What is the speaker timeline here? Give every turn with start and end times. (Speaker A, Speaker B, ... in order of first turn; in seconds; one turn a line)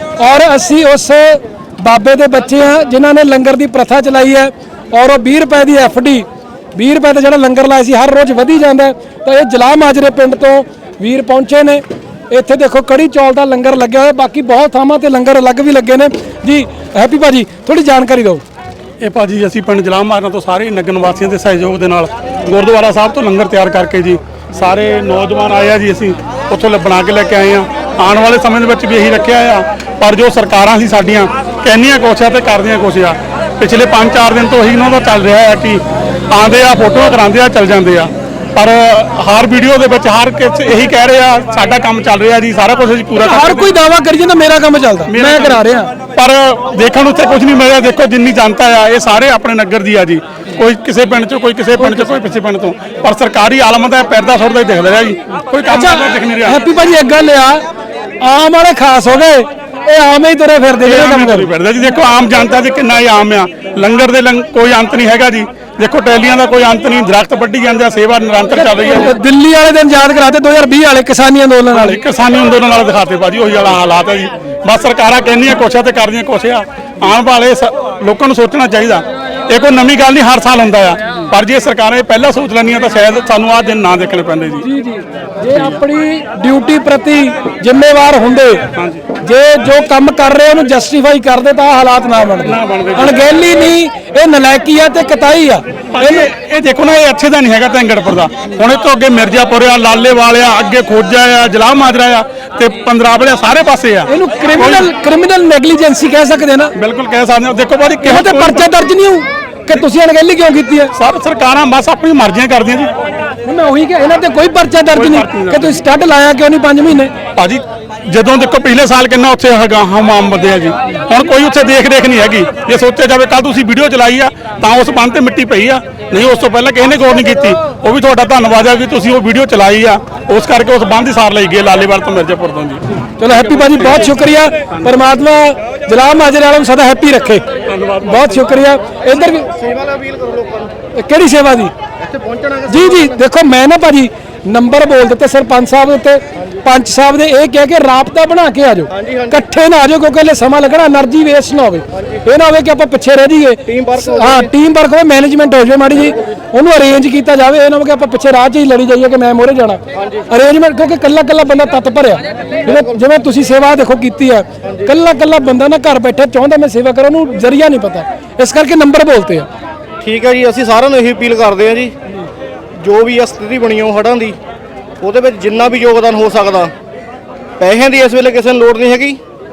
Speaker A: 0.2-18.4
Speaker B: 19.0-43.7
Speaker A: 43.2-45.9
Speaker B: 45.1-45.6
Speaker B: 46.1-56.6
Speaker A: 51.8-52.1
Speaker A: 55.6-57.6
Speaker A: 58.2-61.5
Speaker B: 60.8-69.1
Speaker A: 68.5-72.0
Speaker B: 71.7-84.6
Speaker A: 84.6-88.7
Speaker B: 85.5-85.8
Speaker B: 88.7-89.0
Speaker A: 89.2-96.3
Speaker B: 92.4-93.2
Speaker B: 95.9-104.9
Speaker A: 104.1-106.7
Speaker B: 106.8-108.7
Speaker A: 108.0-110.9
Speaker B: 110.9-112.9
Speaker A: 113.4-117.1
Speaker B: 114.9-115.8
Speaker B: 117.3-134.1
Speaker A: 133.2-137.4
Speaker B: 137.7-138.5
Speaker A: 138.0-139.5
Speaker C: 139.5-140.7
Speaker A: 140.9-141.7
Speaker C: 142.0-143.2
Speaker A: 142.7-169.5
Speaker C: 148.9-149.4
Speaker C: 153.7-154.5
Speaker C: 159.9-160.2
Speaker C: 162.6-163.0
Speaker C: 164.6-164.9
Speaker C: 170.0-171.9
Speaker C: 172.8-174.4
Speaker C: 175.0-176.7
Speaker C: 177.6-179.2